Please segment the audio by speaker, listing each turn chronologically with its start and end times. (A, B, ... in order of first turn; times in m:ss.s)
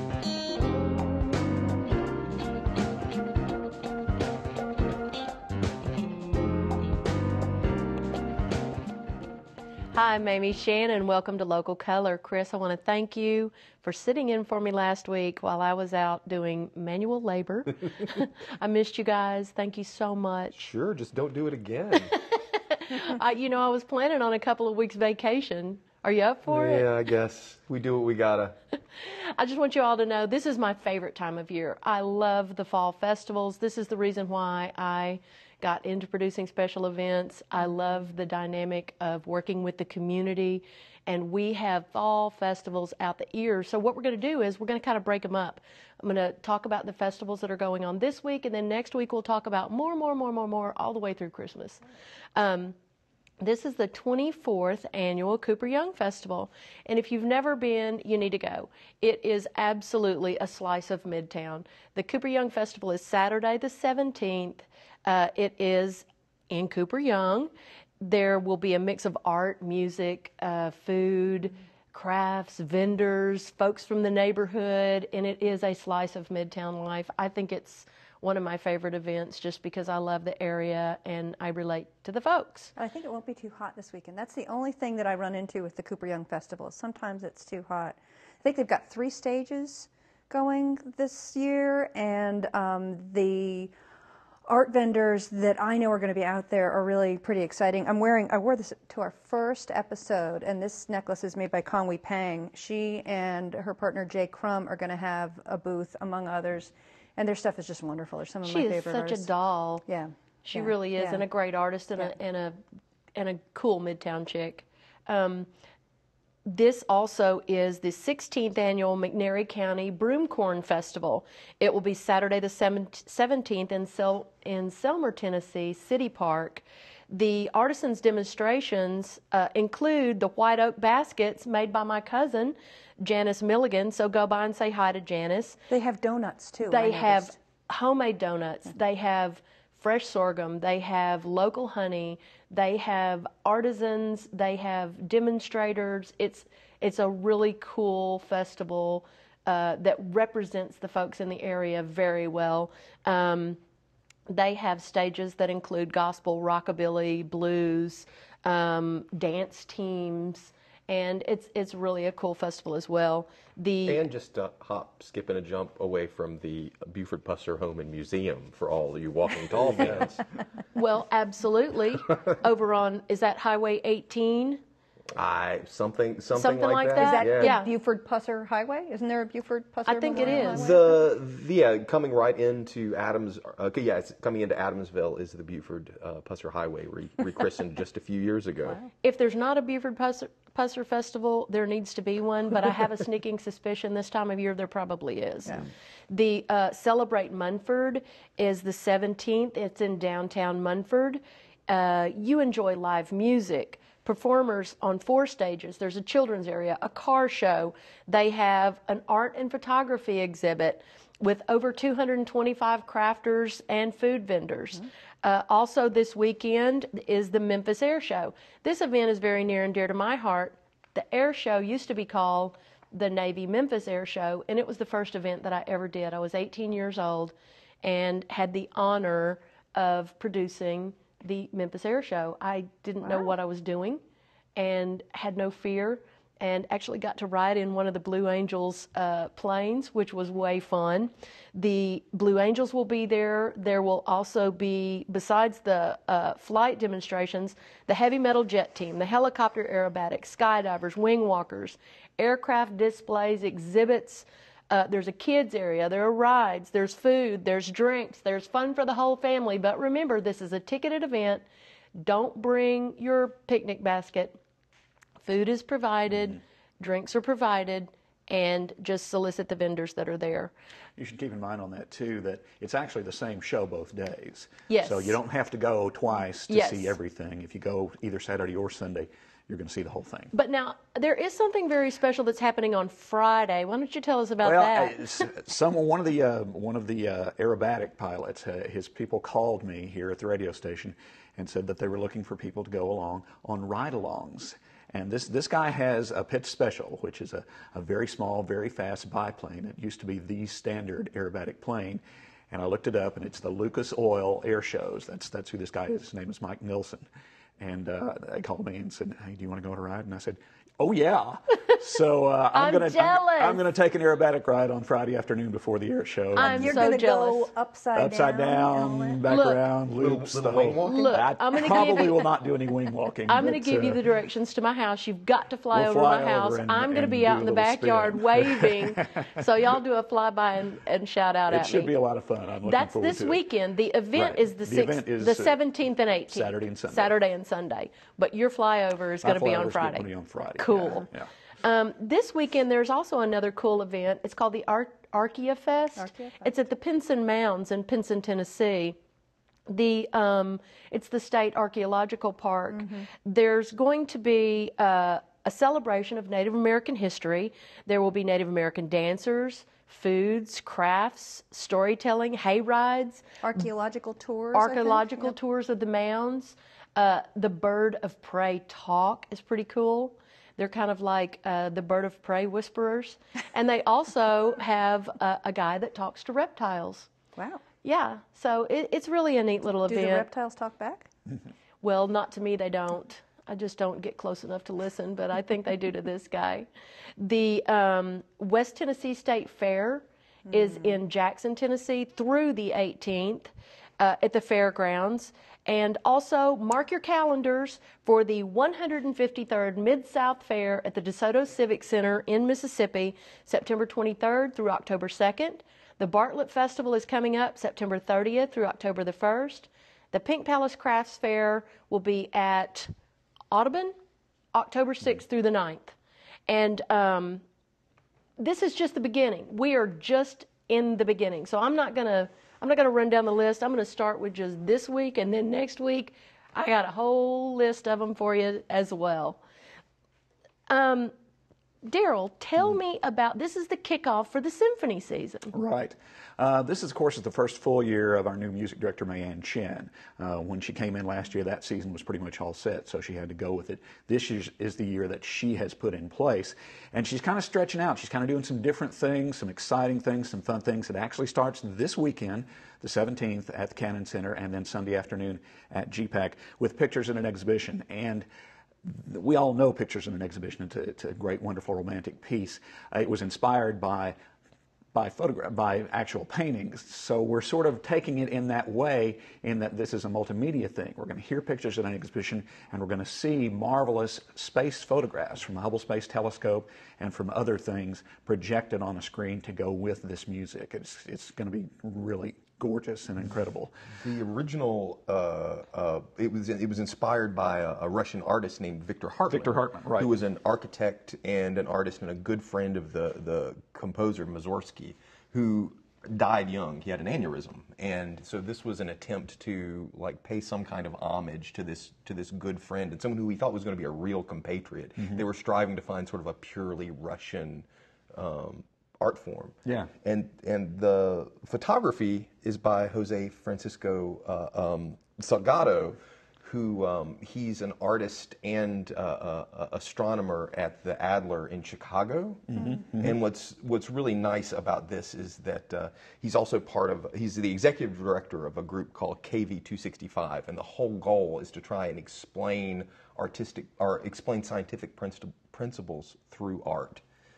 0:09.9-0:20.6 A
0:20.5-0:22.1 B
0:22.1-0:26.9 A
0:26.5-0:28.6 B
0:28.9-0:51.8 A
0:52.3-0:52.8 A
0:53.4-1:22.7 A
1:22.8-1:33.7 C
1:34.5-1:49.3 C
1:48.4-1:49.8 A
1:49.8-1:51.2 C
1:50.4-1:52.6 A
1:53.1-1:55.5 A
1:56.4-2:15.6 A
2:15.7-2:17.3 C
2:16.6-2:33.6 A
2:34.3-2:44.0 A
2:43.8-2:50.2 B
2:49.5-2:50.2 D
2:50.7-2:54.6 A
2:55.1-2:57.6 B
2:56.3-2:57.7 A
2:57.0-3:01.0 C
2:59.8-3:00.7 A
3:00.1-3:08.8 B
3:09.0-3:54.0 A
3:54.6-4:21.4 A
4:22.0-4:24.4 A
4:25.2-4:30.5 A
4:31.0-4:40.3 D
4:34.7-4:35.2 A
4:36.5-4:36.9 A
4:40.3-4:45.2 A
4:44.4-5:07.0 D
5:07.6-5:16.9 D
5:12.5-5:13.6 A
5:16.3-5:17.5 A
5:16.4-5:19.2 C
5:17.9-5:24.0 D
5:19.2-5:19.6 A
5:20.0-5:21.2 B
5:20.8-5:22.3 A
5:23.3-5:31.9 A
5:25.7-5:29.4 D
5:31.5-5:33.4 D
5:32.6-5:41.1 A
5:34.1-5:35.6 D
5:36.3-5:37.1 D
5:39.2-5:41.3 D
5:41.6-5:49.0 A
5:46.0-5:46.5 C
5:49.7-6:03.2 A
5:52.7-5:53.1 C
6:03.4-6:05.3 C
6:04.5-6:17.1 A
6:17.8-6:20.3 A
6:19.9-6:21.1 C
6:21.8-6:26.7 A
6:27.2-6:52.9 A
6:30.5-6:30.9 C
6:53.5-6:53.9 A
6:54.5-6:56.0 A
6:56.5-6:57.4 A
6:58.4-7:09.4 A
7:10.7-7:11.1 A
7:11.8-7:15.5 A
7:15.5-7:38.2 D
7:38.8-7:44.2 D
7:44.9-8:03.7 D
8:04.0-8:57.0 B
8:09.3-8:10.1 D
8:25.0-8:25.2 D
8:29.6-8:29.9 D
8:42.5-8:43.1 D